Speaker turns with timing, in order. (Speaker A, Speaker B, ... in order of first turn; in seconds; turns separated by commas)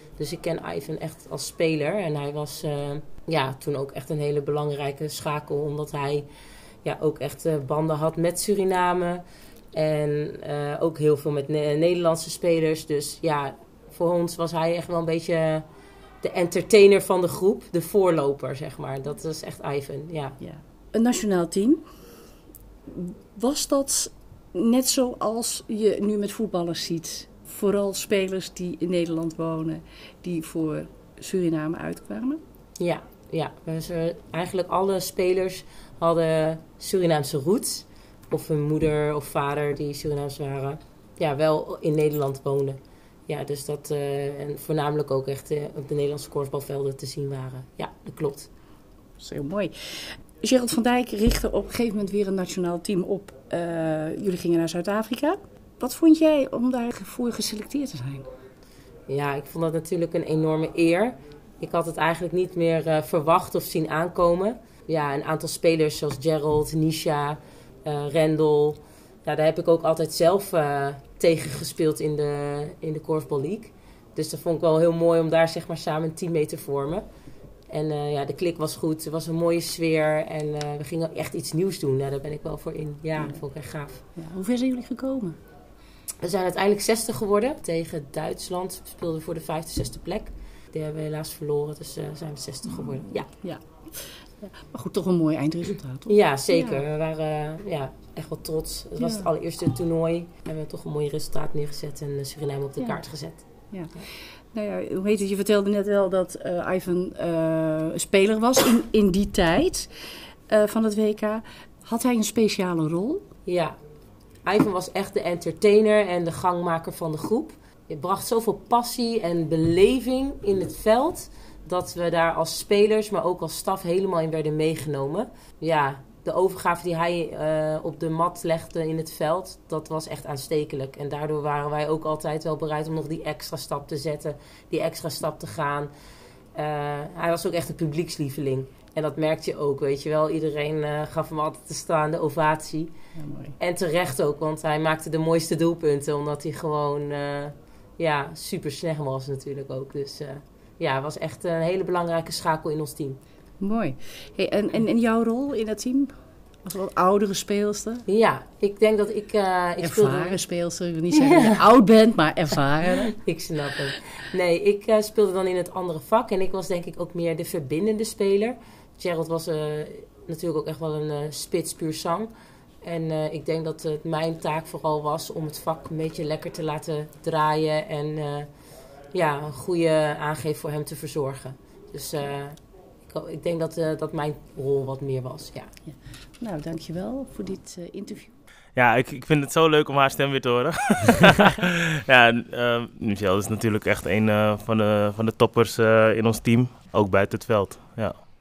Speaker A: 0.2-6.3, Speaker A: 6.8-9.2, Speaker A: 9.7-15.7, Speaker A: 16.2-20.4, Speaker B: 20.4-21.8, Speaker B: 22.9-32.4, Speaker A: 32.8-48.5, Speaker B: 49.2-58.3, Speaker A: 59.1-77.0, Speaker A: 77.7-84.0, Speaker B: 84.2-85.4, Speaker A: 86.2-93.3, Speaker B: 92.7-96.8, Speaker A: 96.1-103.5, Speaker B: 99.0-99.3, Speaker B: 102.8-103.0, Speaker B: 103.7-109.9, Speaker B: 110.5-113.2, Speaker A: 113.5-113.8, Speaker A: 114.5-135.9, Speaker A: 136.5-142.9, Speaker B: 143.1-143.6, Speaker A: 143.6-153.2, Speaker B: 153.6-158.0, Speaker A: 158.1-160.4, Speaker B: 159.8-163.1, Speaker A: 161.1-161.6, Speaker A: 163.0-172.3, Speaker A: 172.8-178.5, Speaker A: 179.1-185.7, Speaker B: 185.8-188.3, Speaker C: 188.8-198.2